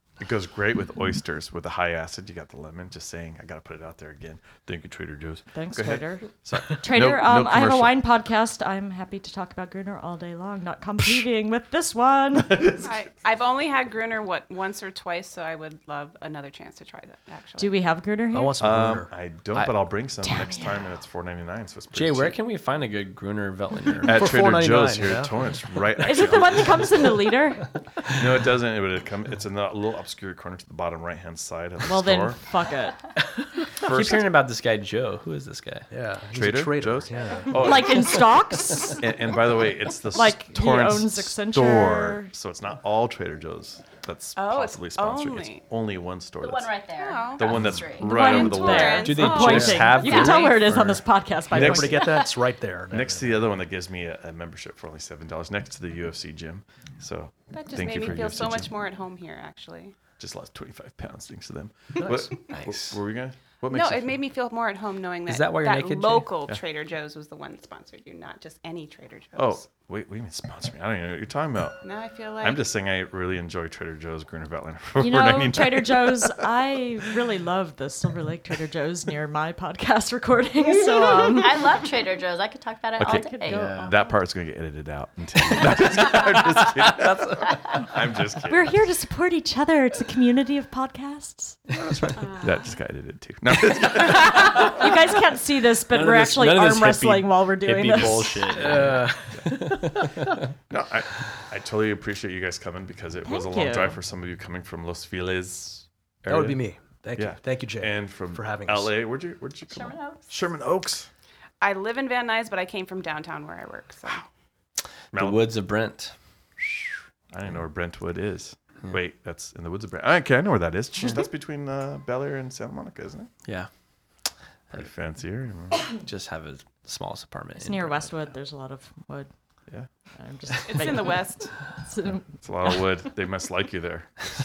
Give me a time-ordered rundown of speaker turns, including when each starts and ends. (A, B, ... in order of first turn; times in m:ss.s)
0:00.2-0:07.9 A
0:05.5-0:12.9 B
0:12.5-0:12.9 A
0:12.8-0:17.7 C
0:17.6-0:18.6 B
0:18.3-0:19.1 D
0:18.6-0:22.4 A
0:20.2-0:20.8 B
0:21.9-0:24.3 E
0:24.0-0:27.0 A
0:24.1-0:25.4 D
0:26.0-0:27.7 B
0:28.1-0:32.5 A
0:31.8-0:33.1 B
0:33.8-0:35.9 E
0:33.8-0:34.3 A
0:35.9-0:37.7 D
0:36.3-0:38.3 A
0:37.5-0:39.1 B
0:38.9-0:46.7 A
0:40.1-0:42.3 B
0:44.4-0:45.6 C
0:46.4-0:48.5 F
0:47.0-0:47.5 C
0:47.4-0:49.1 A
0:47.9-0:52.3 B
0:48.1-0:50.5 C
0:49.0-0:51.8 E
0:50.0-0:50.5 F
0:51.5-0:53.5 D
0:52.9-0:58.7 A
0:57.5-0:59.9 C
1:00.2-1:04.2 A
1:02.0-1:02.4 D
1:02.4-1:03.0 E
1:03.7-1:09.6 C
1:05.2-1:06.3 E
1:09.4-1:11.8 A
1:11.8-1:12.6 C
1:12.4-1:16.4 A
1:15.0-1:21.8 B
1:20.6-1:23.7 F
1:23.0-1:28.8 A
1:23.0-1:23.9 B
1:23.5-1:23.9 E
1:25.6-1:27.8 E
1:28.5-1:31.7 B
1:32.0-1:34.7 A
1:32.2-1:32.5 F
1:34.1-1:38.7 B
1:35.8-1:40.3 E
1:38.6-1:40.1 D
1:40.7-1:46.6 A
1:43.2-1:44.0 B
1:46.3-1:48.9 D
1:47.2-1:51.1 A
1:49.7-1:50.3 F
1:51.6-1:54.2 C
1:55.1-1:56.1 E
1:55.1-1:55.5 A
1:56.6-2:03.3 A
2:04.7-2:05.8 A
2:06.0-2:08.1 E
2:07.6-2:09.3 B
2:10.2-2:12.4 B
2:10.6-2:11.6 C
2:12.4-2:14.1 A